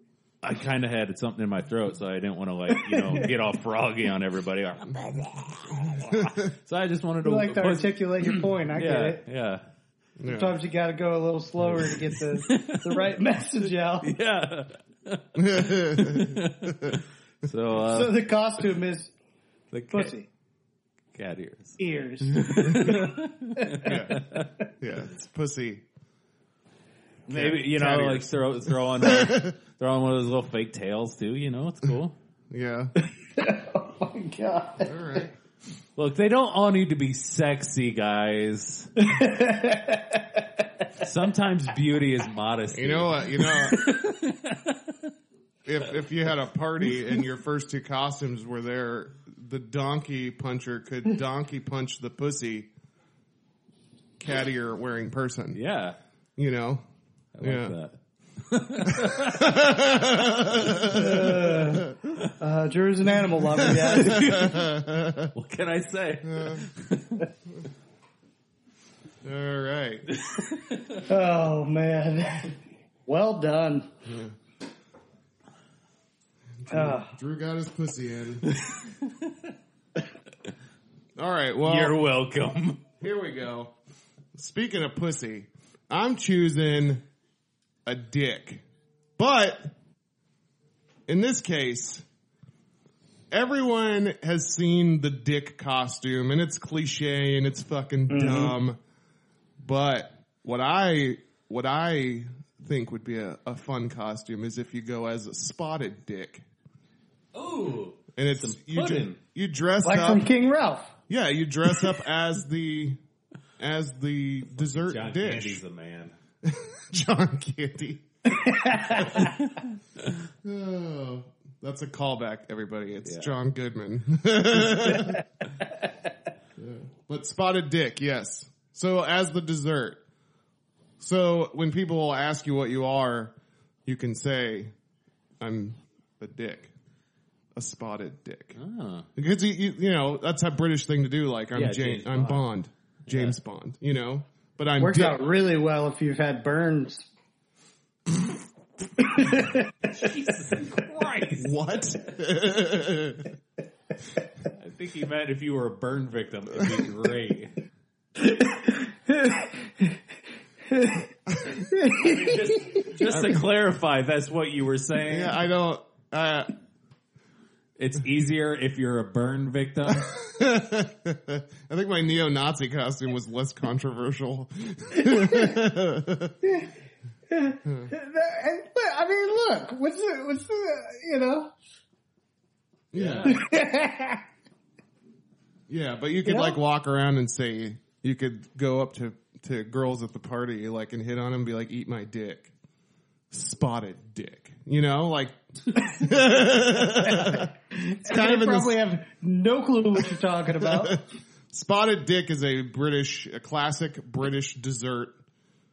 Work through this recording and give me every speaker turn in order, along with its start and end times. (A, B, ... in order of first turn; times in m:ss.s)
0:00.4-0:09.6 A
0:02.8-0:03.3 B
0:05.9-0:06.4 C
0:07.2-0:09.2 B
0:10.2-0:10.5 C
0:10.3-0:14.1 B
0:11.7-0:13.2 A
0:14.0-0:18.2 A
0:15.4-0:17.0 C
0:17.8-0:19.1 B
0:19.7-0:20.1 A
0:19.9-0:20.3 B
0:21.1-0:24.5 A
0:21.8-0:23.9 B
0:23.8-0:24.2 C
0:24.8-0:25.8 C
0:27.3-0:32.2 A
0:27.3-0:29.5 C
0:32.5-0:32.9 C
0:33.3-0:35.2 B
0:34.8-0:35.3 C
0:36.0-0:38.9 A
0:39.0-0:40.4 B
0:41.0-0:44.8 A
0:42.7-0:43.8 C
0:43.5-0:44.2 B
0:45.6-0:52.7 C
0:54.2-0:55.6 C
0:55.5-0:56.0 A
0:56.4-0:56.8 C
0:57.4-0:59.6 A
0:57.4-0:57.8 C
0:58.9-1:02.2 C
1:00.9-1:01.9 B
1:02.4-1:04.4 B
1:03.6-1:04.7 A
1:03.6-1:05.3 C
1:05.3-1:07.3 A
1:06.2-1:06.7 C
1:09.2-1:10.1 C
1:10.1-1:11.0 A
1:11.1-1:13.9 B
1:14.1-1:14.4 C
1:16.7-1:18.5 C
1:16.7-1:17.1 B
1:18.5-1:19.3 A
1:21.2-1:22.0 C
1:21.6-1:22.9 A
1:23.0-1:23.7 C
1:24.4-1:27.0 C
1:27.9-1:28.6 C
1:29.2-1:29.7 C
1:31.1-1:32.0 C
1:33.3-1:38.8 C
1:38.1-1:38.6 B
1:39.6-1:46.4 C
1:47.3-1:49.2 A
1:48.2-1:50.2 C
1:49.8-1:50.9 B
1:51.1-1:53.0 C
1:53.6-1:55.6 C
1:54.7-1:56.1 A
1:56.4-1:58.0 C
1:58.3-1:59.4 B
2:00.4-2:05.2 C
2:03.0-2:03.3 A
2:06.6-2:10.0 C
2:11.0-2:13.4 C
2:13.9-2:14.7 C
2:15.4-2:16.7 C
2:17.6-2:18.6 C
2:18.6-2:19.1 A
2:19.2-2:25.2 C
2:21.5-2:22.4 A
2:23.1-2:23.4 A
2:24.8-2:27.1 B
2:29.0-2:29.7 B
2:29.9-2:31.6 A
2:31.4-2:33.3 C
2:34.5-2:37.5 A
2:38.2-2:40.0 B
2:40.7-2:41.1 B
2:41.6-2:43.0 B
2:41.9-2:45.4 A
2:43.1-2:43.4 C
2:45.1-2:46.5 C
2:47.8-2:50.1 A
2:50.0-2:56.4 C
2:55.0-2:55.5 B
2:56.4-2:56.7 B
2:57.3-3:01.5 B
2:57.7-2:57.9 C
3:02.9-3:03.4 C
3:02.9-3:03.4 A
3:03.2-3:04.2 B
3:05.7-3:12.5 C
3:06.2-3:06.6 B
3:13.3-3:15.4 C
3:15.9-3:17.5 C
3:17.0-3:21.0 B
3:18.1-3:18.8 C
3:20.6-3:25.2 C